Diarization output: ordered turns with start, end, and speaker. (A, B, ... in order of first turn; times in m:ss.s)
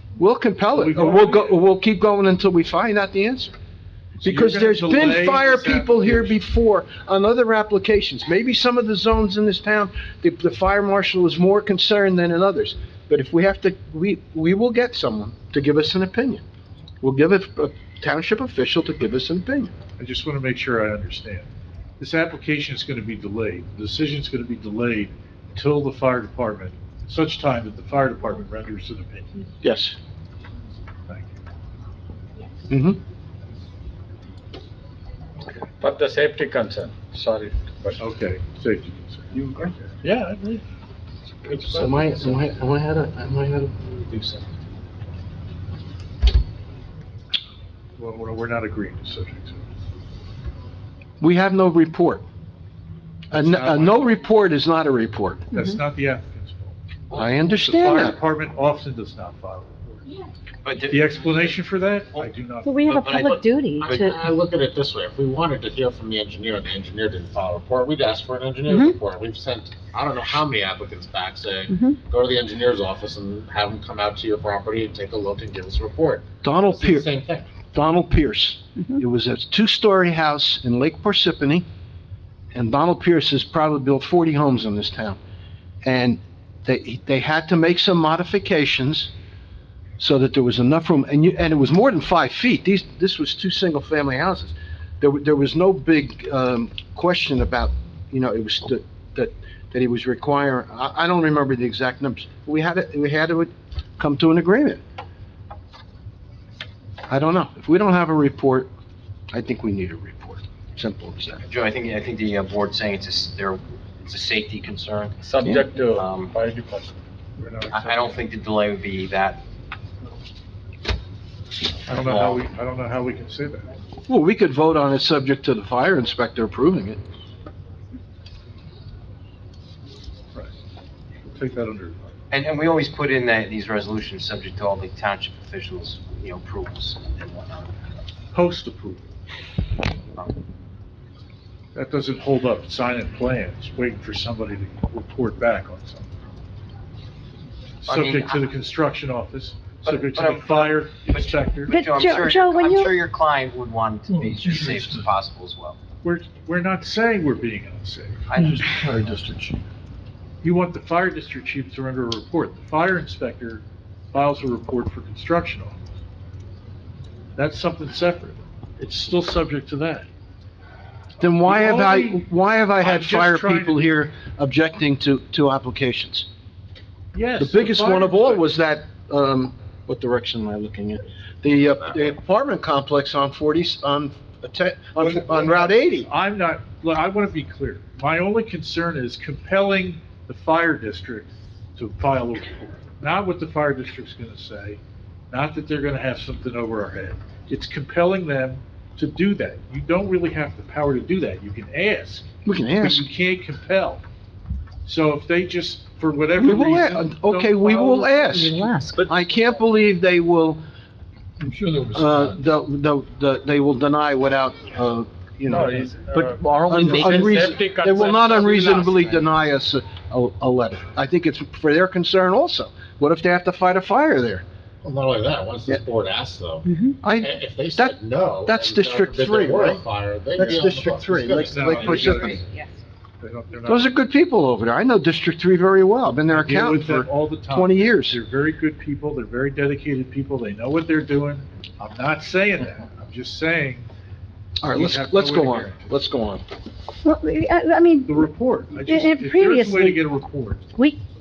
0:00.2-0:03.5 A
0:00.7-0:01.6 B
0:04.2-0:06.4 B
0:04.2-0:16.4 A
0:17.0-0:19.7 A
0:20.0-0:21.5 B
0:22.0-0:29.4 B
0:29.6-0:30.0 A
0:31.1-0:31.3 B
0:32.7-0:33.0 A
0:35.8-0:38.0 C
0:38.0-0:39.3 B
0:40.0-0:40.6 B
0:41.6-0:41.9 C
0:41.6-0:44.4 A
0:48.0-0:49.6 B
0:51.2-0:52.2 A
0:53.3-0:55.6 A
0:53.3-0:54.1 B
0:55.5-0:56.8 B
0:57.1-0:58.2 A
0:57.3-1:00.0 B
1:00.6-1:01.6 D
1:00.9-1:03.3 B
1:02.6-1:04.1 E
1:03.0-1:03.3 D
1:03.1-1:17.5 F
1:08.7-1:09.0 E
1:11.7-1:12.0 E
1:16.4-1:17.1 A
1:17.7-1:21.6 A
1:22.5-1:25.2 A
1:25.8-1:29.1 A
1:30.0-1:44.8 A
1:47.1-1:48.7 A
1:49.3-1:51.4 A
1:51.4-1:55.2 D
1:55.2-1:56.9 C
1:55.9-1:56.3 D
1:57.4-1:58.2 B
1:57.7-1:59.4 D
2:01.8-2:03.7 B
2:02.0-2:02.4 D
2:04.1-2:07.0 A
2:11.2-2:12.0 B
2:12.3-2:18.0 D
2:18.3-2:19.0 B
2:20.0-2:20.3 D
2:21.7-2:26.1 B
2:27.8-2:31.8 B
2:27.9-2:28.5 D
2:29.8-2:35.8 D
2:31.7-2:32.9 E
2:36.0-2:38.2 B
2:38.3-2:39.4 D
2:40.4-2:45.8 B
2:47.4-2:50.1 B
2:51.2-2:56.3 A
2:51.4-2:52.2 B
2:52.8-2:53.8 B
2:57.1-2:58.5 B
2:57.4-3:06.1 A
3:05.2-3:22.3 B
3:22.4-3:23.1 A
3:22.8-3:24.0 B
3:24.8-3:28.5 B
3:26.4-3:30.6 A
3:28.3-3:29.1 E
3:31.8-3:44.4 A
3:35.5-3:38.9 C
3:44.8-3:52.3 F
3:46.6-3:47.0 E
3:47.0-3:49.8 A
3:50.4-3:52.4 A
3:51.5-3:52.4 B
3:52.4-3:52.7 E
3:53.2-3:53.9 B
3:53.6-3:58.2 A
3:56.3-4:03.9 B
4:04.6-4:06.4 A
4:04.6-4:05.9 B
4:07.0-4:08.3 E
4:08.1-4:10.6 B
4:08.8-4:10.0 E